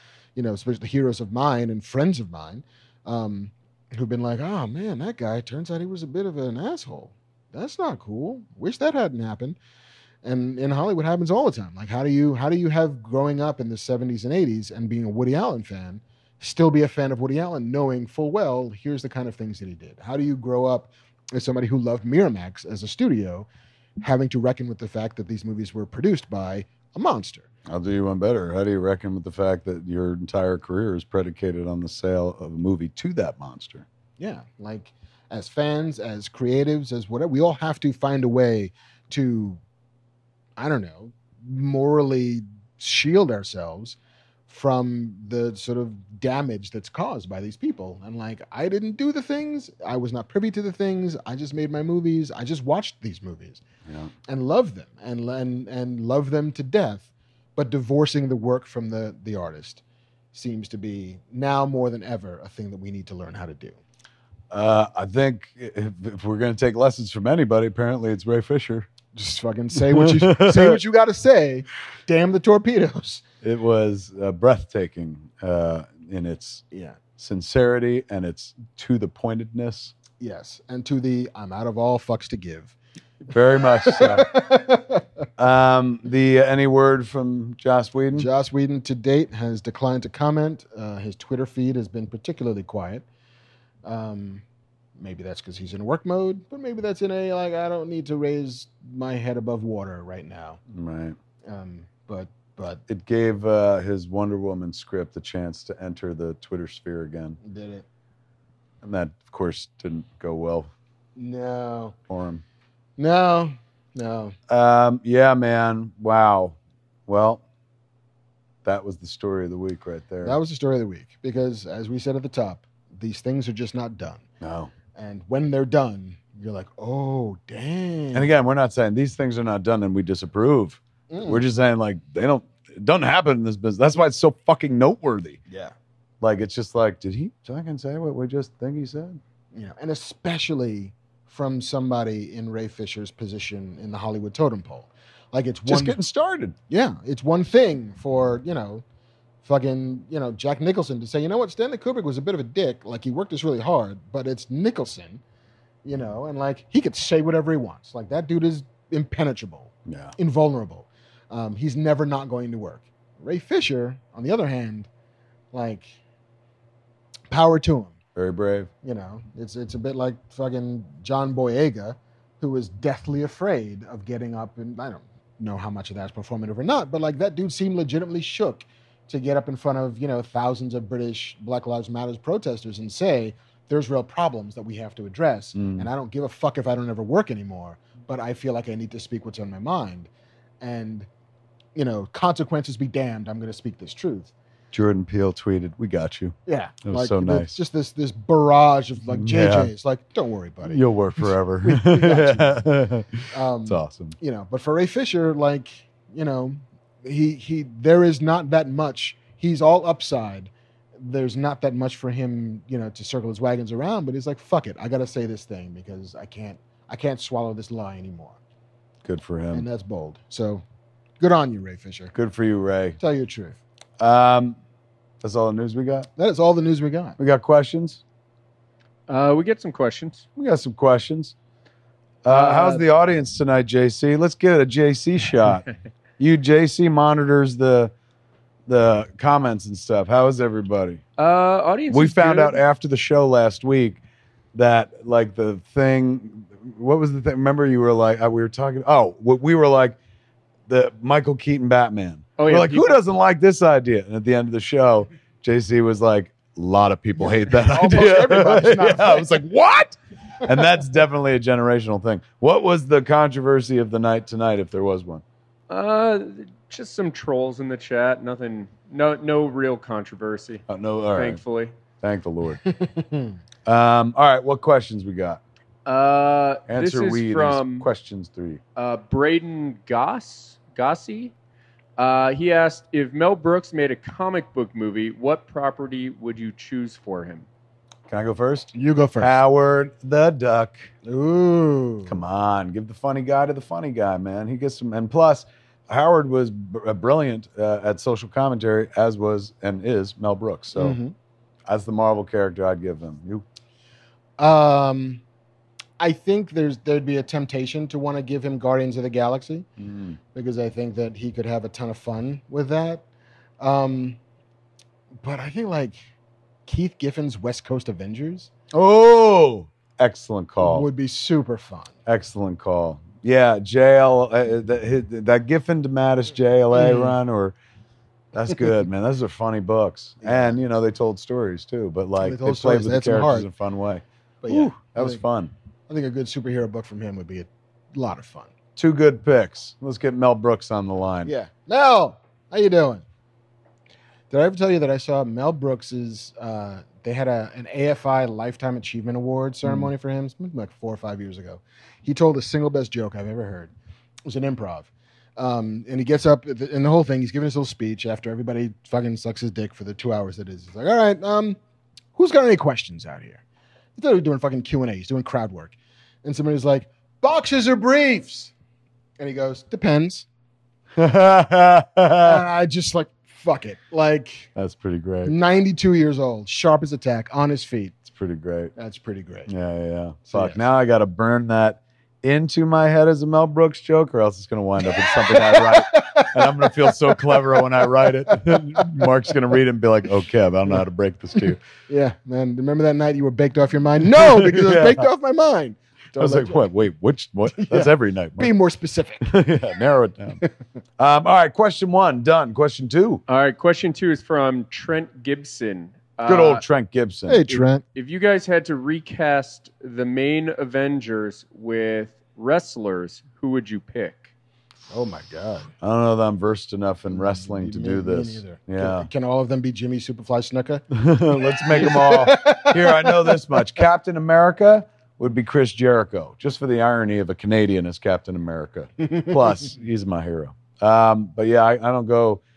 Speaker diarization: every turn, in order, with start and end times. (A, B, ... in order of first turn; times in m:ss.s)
0:00.4-0:09.6 A
0:10.2-0:23.5 A
0:24.0-0:27.5 A
0:27.7-0:33.9 B
0:34.2-0:39.6 A
0:40.6-0:44.0 A
0:44.5-0:53.6 A
0:54.3-0:59.8 A
1:00.3-1:03.8 A
1:04.5-1:08.9 B
1:09.1-1:13.2 A
1:09.7-1:10.8 B
1:13.4-1:16.6 B
1:16.7-1:17.0 A
1:17.2-1:19.9 B
1:20.2-1:22.8 A
1:23.3-1:24.3 B
1:23.7-1:25.0 A
1:25.4-1:28.3 B
1:28.1-1:33.0 A
1:33.8-1:34.4 A
1:35.0-1:40.6 A
1:40.7-1:41.2 B
1:41.5-1:42.8 A
1:42.9-1:47.4 B
1:47.4-1:47.8 A
1:48.8-1:50.7 B
1:51.2-1:52.0 A
1:52.1-1:52.4 B
1:53.0-1:54.4 A
1:54.5-1:56.6 B
1:57.1-1:57.4 B
1:58.6-2:00.4 B
2:00.2-2:04.2 A
2:04.4-2:04.7 B
2:04.9-2:08.3 A
2:08.1-2:15.4 B
2:11.1-2:11.4 A
2:15.5-2:15.7 A
2:16.2-2:19.2 B
2:19.5-2:26.0 A
2:25.7-2:26.6 B
2:26.7-2:28.8 A
2:29.4-2:35.2 A
2:35.8-2:44.9 A
2:39.9-2:40.2 B
2:45.5-2:46.0 A
2:47.3-2:48.0 A
2:48.2-2:48.7 B
2:48.8-3:10.1 A
3:05.6-3:05.9 B
3:10.6-3:11.1 A
3:11.8-3:14.3 A
3:14.7-3:17.6 B
3:16.5-3:22.6 A
3:19.1-3:19.7 B
3:20.6-3:24.2 B
3:23.3-3:38.4 A
3:39.0-3:39.7 B
3:39.5-3:40.6 A
3:41.2-3:42.1 A
3:42.1-3:43.0 B
3:43.0-3:43.6 A
3:44.0-3:44.6 B
3:45.2-3:46.1 B
3:46.2-3:47.2 A
3:47.2-3:48.0 B
3:49.1-3:50.2 C
3:50.4-3:51.4 B
3:52.2-3:55.6 B
3:52.3-3:52.8 C
3:56.2-3:57.9 B
3:58.7-4:01.0 B
4:01.2-4:02.6 C
4:01.9-4:04.0 B
4:04.5-4:10.0 B
4:10.7-4:25.2 B
4:12.4-4:13.0 C
4:17.2-4:19.3 A
4:25.7-4:30.6 C
4:30.7-4:31.4 B
4:31.2-4:31.7 C
4:32.0-4:32.6 B
4:32.7-4:33.4 A
4:33.7-4:35.4 B
4:35.9-4:37.9 C
4:36.7-4:38.6 B
4:38.8-4:41.3 C
4:42.0-4:47.5 C
4:48.1-4:50.9 B
4:48.7-4:49.4 A
4:51.0-4:52.2 A
4:52.1-5:01.0 B
5:00.8-5:01.1 A
5:01.7-5:03.4 B
5:04.4-5:05.2 A
5:06.0-5:09.7 A
5:09.8-5:10.2 B
5:10.3-5:13.0 A
5:13.6-5:14.2 A
5:15.2-5:16.0 A
5:16.7-5:18.5 A
5:18.7-5:20.9 B
5:20.6-5:21.9 A
5:22.1-5:27.6 B
5:26.7-5:27.2 A
5:28.3-5:35.5 B
5:30.2-5:30.6 A
5:32.2-5:33.5 A
5:34.4-5:35.2 A
5:35.9-5:38.5 A
5:38.8-5:41.3 B
5:41.2-5:43.0 A
5:44.3-5:53.7 A
5:49.6-5:49.9 B
5:54.3-6:01.6 A
6:02.2-6:03.4 A
6:04.0-6:08.5 A
6:09.2-6:10.3 A
6:11.0-6:12.4 B
6:12.2-6:14.5 A
6:14.6-6:15.3 B
6:15.2-6:18.0 A
6:18.1-6:18.7 B
6:18.8-6:19.5 A
6:19.5-6:31.6 B
6:20.3-6:20.6 A
6:25.0-6:29.1 A
6:31.9-6:36.7 A
6:34.2-6:35.1 B
6:36.2-6:38.5 B
6:37.6-6:39.3 A
6:39.2-6:40.4 B
6:41.0-6:43.2 B
6:43.3-6:46.6 C
6:46.3-6:47.6 B
6:47.3-6:47.8 A
6:47.8-6:54.3 C
6:54.9-6:55.7 A
6:55.8-6:59.1 B
6:57.1-7:00.8 A
7:00.9-7:12.4 B
7:01.4-7:03.8 A
7:09.0-7:09.7 A